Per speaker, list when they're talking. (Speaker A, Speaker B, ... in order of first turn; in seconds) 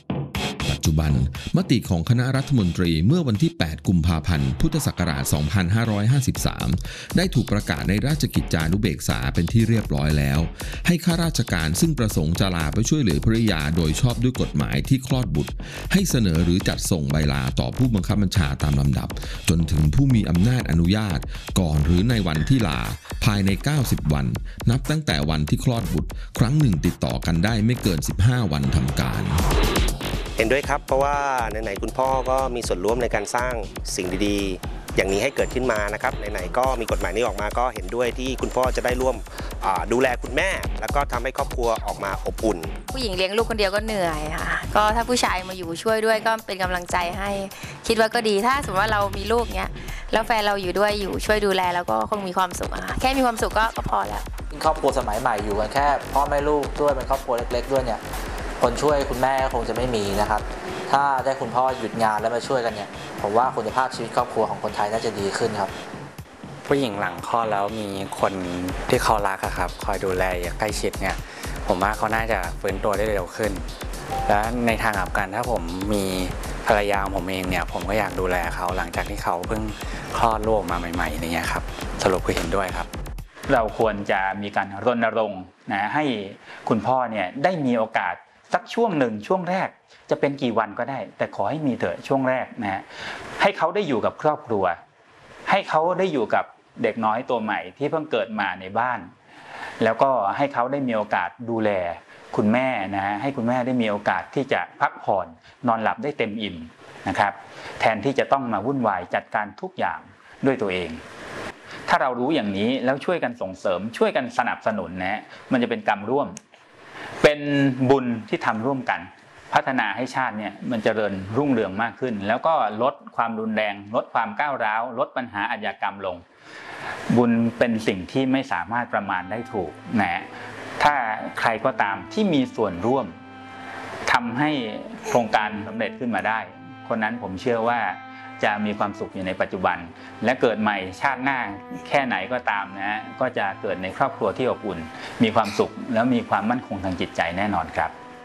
Speaker A: 0.6-29.4
Speaker B: 30.4-42.7
Speaker C: 42.9-54.2
Speaker D: 54.5-58.0, 58.6-65.7
Speaker E: 66.7-73.7, 74.2-82.9
Speaker F: 83.5-92.8, 93.4-94.8, 95.5-99.1, 99.8-111.0, 111.9-116.4, 117.2-126.2, 127.1-130.3, 130.8-133.2, 134.1-147.9